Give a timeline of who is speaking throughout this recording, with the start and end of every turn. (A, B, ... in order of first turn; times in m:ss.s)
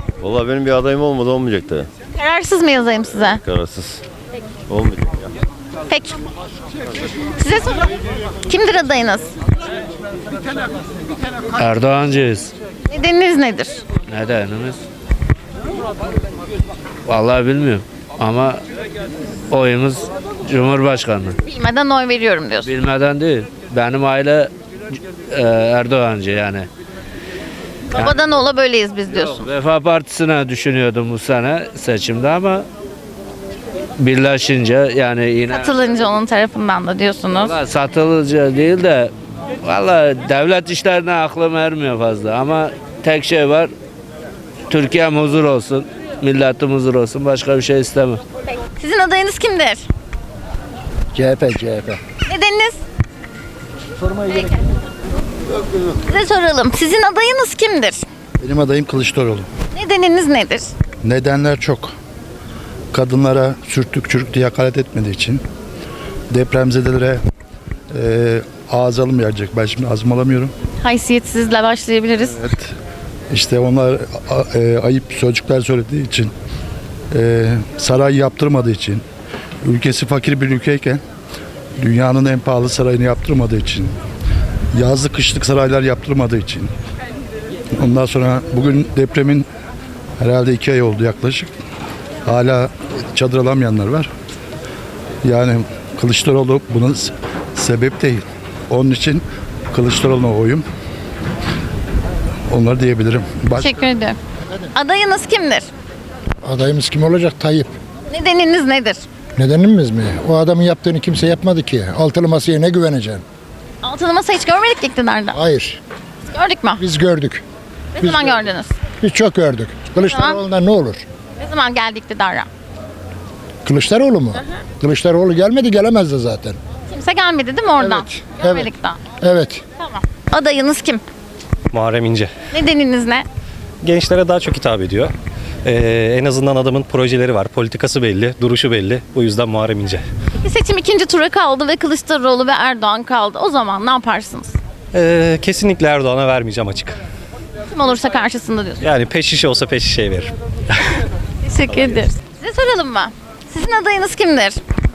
0:00.2-0:01.9 A
0:02.2-0:03.4 B
0:03.5-0:04.0 A
0:04.7-0:05.2 A
0:05.9-0:06.2 B
0:07.4-0:08.0 B
0:08.5-0:09.3 B
0:11.6-0:12.5 C
0:12.9-0:13.8 B
0:14.1-0:14.8 C
0:17.1-0:18.6 C
0:19.5-0:21.4 C
0:21.4-0:22.7 B
0:22.6-0:24.5 C
0:25.3-0:26.7 C
0:27.9-0:29.5 B
0:29.4-0:32.7 C
0:34.0-0:35.7 C
0:35.5-0:37.6 B
0:37.4-0:43.7 C
0:44.7-0:48.2 C
0:48.8-0:49.9 B
0:51.2-0:52.0 D
0:52.3-0:52.8 B
0:54.3-0:54.6 B
0:56.0-0:58.0 B
0:58.4-0:59.5 E
0:59.7-1:00.7 B
1:01.0-1:01.9 E
1:02.9-1:05.4 E
1:06.3-1:07.2 E
1:07.9-1:10.5 E
1:10.8-1:12.4 B
1:12.4-1:12.7 E
1:13.3-1:16.3 E
1:17.1-1:19.0 E
1:19.6-1:21.0 E
1:21.8-1:24.0 E
1:24.7-1:26.7 E
1:27.8-1:29.5 E
1:30.2-1:31.5 E
1:32.3-1:34.1 E
1:35.2-1:40.6 E
1:42.5-1:43.8 E
1:43.6-1:44.2 B
1:44.7-1:45.7 B
1:46.4-1:47.7 D
1:48.1-1:49.0 B
1:49.4-1:53.2 D
1:53.8-1:55.4 B
1:55.3-1:55.8 D
1:56.3-1:56.8 B
1:56.8-1:57.4 D
1:58.0-1:58.7 B
1:58.0-1:58.3 D
1:59.0-2:01.0 D
2:00.0-2:00.4 B
2:01.4-2:02.5 B
2:03.6-2:06.6 D
2:06.9-2:09.0 B
2:07.8-2:08.7 D
2:09.2-2:09.6 D
2:09.8-2:11.0 B
2:11.7-2:12.3 F
2:12.5-2:13.2 B
2:13.8-2:20.1 F
2:20.4-2:24.6 B
2:24.9-2:27.0 F
2:27.7-2:28.8 B
2:28.8-2:30.3 F
2:31.4-2:34.6 B